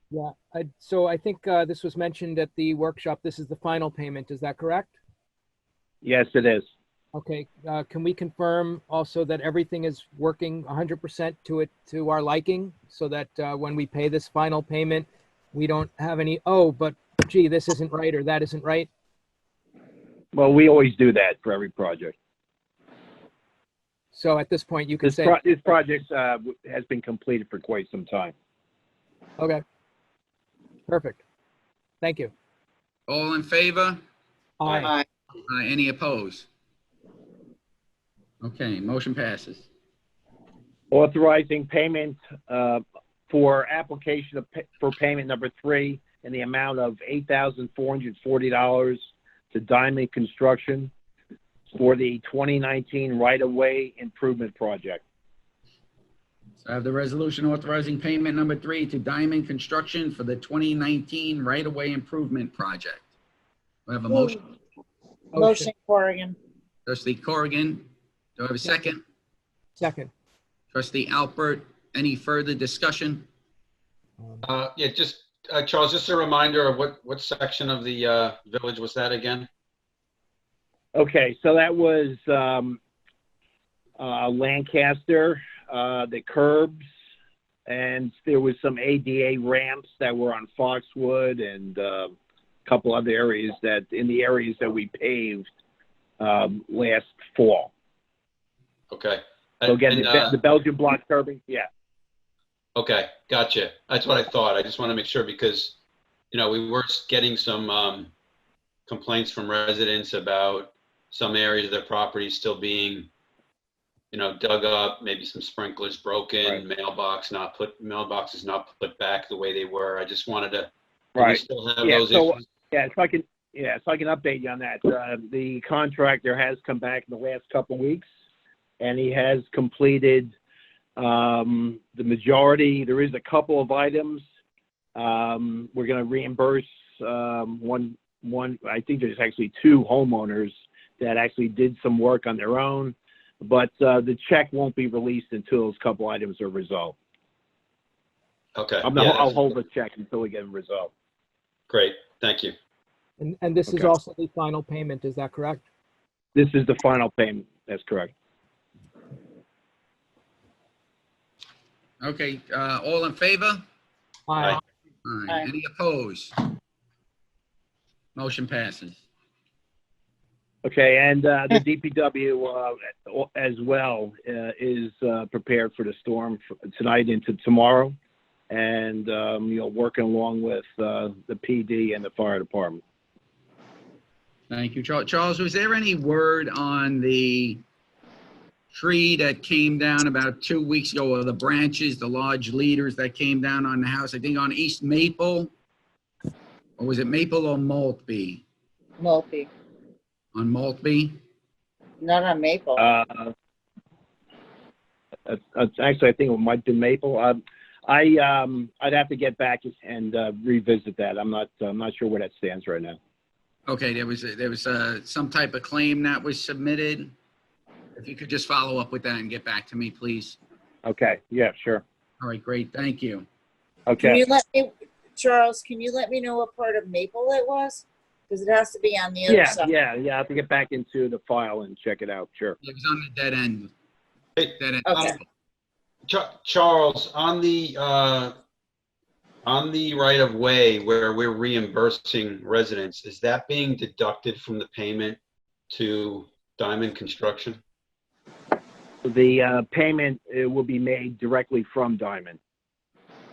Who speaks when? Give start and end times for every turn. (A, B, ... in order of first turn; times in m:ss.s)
0:00.1-0:04.9 A
0:06.0-0:06.6 B
0:07.1-0:18.9 A
0:20.3-0:22.1 B
0:24.1-0:25.4 A
0:25.0-0:28.3 B
0:29.4-0:29.6 A
0:30.9-0:31.2 A
0:32.0-0:32.3 A
0:33.1-0:34.0 C
0:34.6-0:35.0 A
0:34.7-0:35.0 D
0:35.5-0:36.5 C
0:38.4-0:39.7 C
0:40.9-0:50.9 B
0:51.7-0:55.0 B
0:56.6-1:03.1 C
1:03.9-1:04.4 C
1:05.3-1:06.4 D
1:05.4-1:05.7 A
1:06.8-1:07.9 C
1:08.4-1:09.0 C
1:09.8-1:10.1 A
1:10.7-1:13.3 C
1:14.4-1:19.5 E
1:20.9-1:22.8 B
1:24.0-1:26.8 B
1:27.6-1:35.4 B
1:36.2-1:37.7 B
1:38.9-1:40.4 E
1:39.6-1:41.7 B
1:42.7-1:45.8 E
1:46.3-1:48.1 E
1:48.9-1:53.1 E
1:54.1-2:02.3 E
2:01.2-2:08.0 B
2:08.8-2:10.3 B
2:11.0-2:14.2 B
2:15.0-2:27.0 B
2:28.5-2:29.4 E
2:28.8-2:30.9 B
2:31.7-2:32.5 E
2:33.2-2:35.6 A
2:36.3-2:38.1 B
2:42.0-2:43.6 C
2:44.3-2:44.6 A
2:45.0-2:46.4 C
2:48.2-2:49.0 C
2:50.6-2:57.9 B
2:58.5-3:02.8 B
3:04.5-3:07.6 C
3:08.7-3:15.5 C
3:16.8-3:18.4 C
3:19.0-3:19.5 D
3:20.3-3:21.2 C
3:22.0-3:22.9 D
3:22.8-3:23.3 B
3:25.2-3:33.0 B
3:33.7-3:37.1 C
3:38.0-3:40.4 C
3:40.8-3:41.8 B
3:42.2-3:43.2 C
3:43.9-3:44.2 B
3:44.0-3:49.7 D
3:49.3-3:52.6 B
3:52.6-3:53.7 C
3:54.4-3:55.1 E
3:54.6-3:55.2 C
3:54.8-3:55.1 D
3:56.1-3:58.3 E
3:59.4-4:05.2 E
4:05.7-4:07.6 E
4:09.0-4:12.4 B